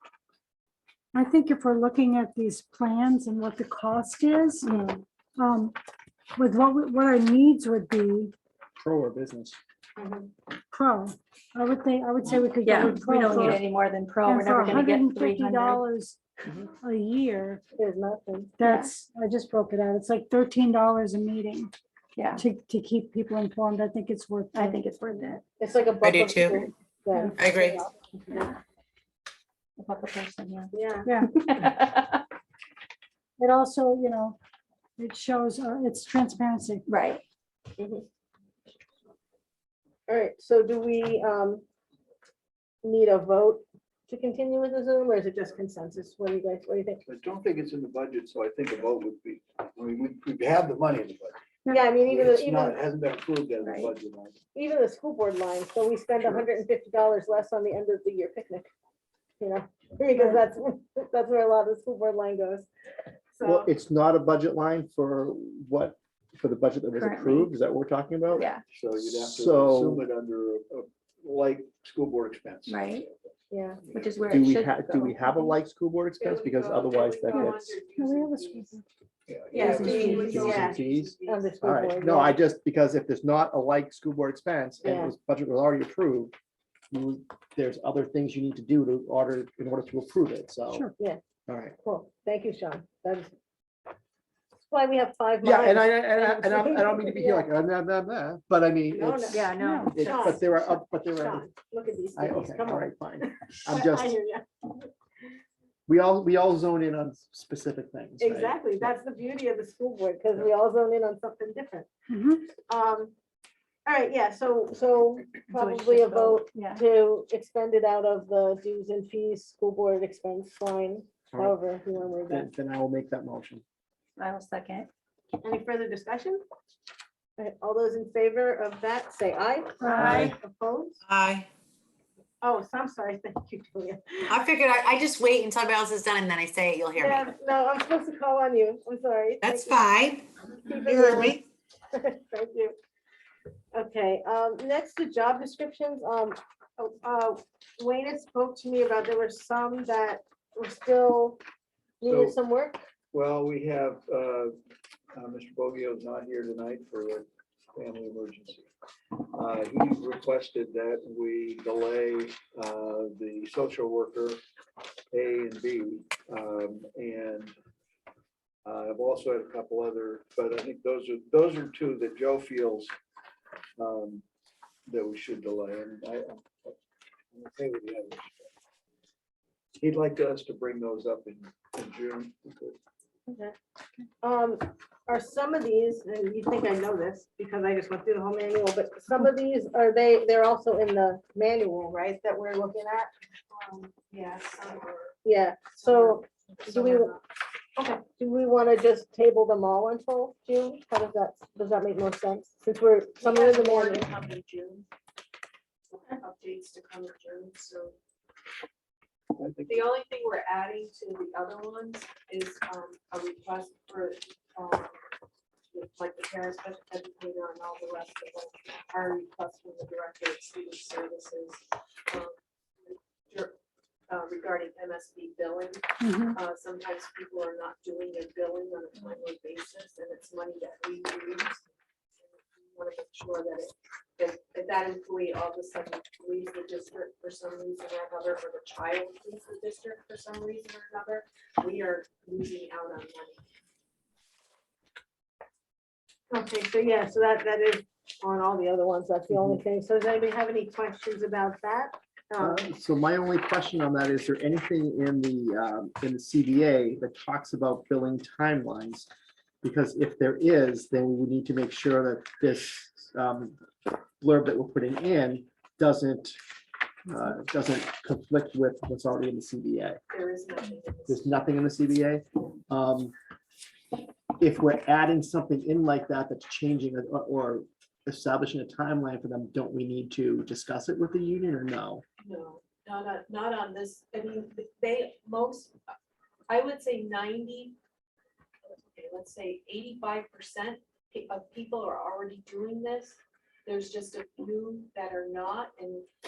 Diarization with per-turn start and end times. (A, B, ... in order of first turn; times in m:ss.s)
0:01.1-0:05.8 A
0:04.7-0:05.0 B
0:06.4-0:08.3 A
0:08.8-0:09.6 C
0:10.0-0:10.3 D
0:10.7-0:13.6 A
0:12.6-0:15.8 B
0:14.2-0:17.6 A
0:17.8-0:18.6 D
0:18.6-0:21.7 A
0:18.7-0:18.9 B
0:22.1-0:22.4 B
0:22.3-0:25.4 A
0:24.6-0:25.4 B
0:25.6-0:28.5 D
0:26.0-0:26.7 E
0:27.4-0:27.8 E
0:28.3-0:28.6 B
0:29.8-0:32.2 B
0:30.7-0:31.1 D
0:31.0-0:31.7 A
0:33.4-0:34.4 A
0:35.0-0:36.9 A
0:36.9-0:37.2 B
0:37.8-0:38.0 D
0:40.1-0:41.6 D
0:42.8-0:47.0 D
0:47.0-0:54.4 F
0:51.7-0:52.8 D
0:53.6-0:53.9 B
0:54.5-0:58.7 D
0:59.4-1:02.7 D
1:03.3-1:03.7 D
1:03.4-1:08.4 C
1:06.9-1:07.5 B
1:08.3-1:08.6 B
1:08.7-1:13.1 F
1:09.0-1:10.0 C
1:12.7-1:13.1 B
1:13.5-1:13.8 D
1:13.9-1:15.6 B
1:14.3-1:17.8 C
1:16.2-1:18.8 G
1:17.3-1:18.8 A
1:19.3-1:20.0 F
1:19.5-1:21.5 G
1:19.6-1:22.4 D
1:19.6-1:20.5 A
1:20.0-1:26.3 C
1:24.8-1:25.1 D
1:26.9-1:30.9 C
1:31.5-1:31.8 C
1:31.8-1:33.3 D
1:34.7-1:37.5 D
1:35.4-1:41.4 C
1:38.9-1:44.4 D
1:39.3-1:40.2 B
1:39.6-1:40.0 A
1:42.1-1:44.1 C
1:45.9-1:48.9 C
1:48.2-1:51.9 D
1:52.1-1:52.4 A
1:52.5-1:53.1 D
1:53.9-2:02.5 D
1:55.5-1:56.8 B
2:01.3-2:01.6 C
2:02.1-2:03.6 C
2:04.2-2:04.9 B
2:05.4-2:06.4 D
2:07.4-2:11.0 D
2:09.8-2:10.3 B
2:09.8-2:10.3 A
2:11.0-2:11.5 E
2:12.4-2:14.4 D
2:14.3-2:17.2 E
2:17.0-2:19.9 D
2:19.4-2:20.2 E
2:20.6-2:21.4 D
2:20.8-2:21.4 E
2:21.9-2:22.8 D
2:23.7-2:31.4 D
2:32.0-2:32.8 D
2:32.0-2:32.4 F
2:33.1-2:34.6 F
2:35.1-2:44.4 F
2:45.1-2:47.5 F
2:48.6-2:52.9 F
2:53.8-2:54.2 F
2:54.9-2:56.8 F
2:57.3-2:58.5 F
2:59.8-3:02.8 F
3:03.3-3:03.5 D
3:04.2-3:13.1 D
3:13.5-3:15.2 G
3:15.2-3:17.1 D
3:15.8-3:17.2 G
3:17.8-3:24.1 D
3:23.2-3:24.9 G
3:25.9-3:27.9 G
3:29.3-3:29.9 F
3:29.7-3:34.9 G
3:35.7-3:43.6 G
3:44.1-3:51.6 G
3:46.0-3:46.4 A
3:52.3-4:03.4 G
4:06.3-4:12.7 D
4:09.3-4:09.6 C
4:12.4-4:19.1 C
4:19.6-4:23.6 C
4:24.2-4:26.4 C
4:27.0-4:30.0 C
4:30.1-4:31.6 G
4:31.1-4:33.1 C
4:34.4-4:42.0 C
4:42.2-4:45.8 G
4:46.5-4:47.8 G
4:48.7-4:56.1 G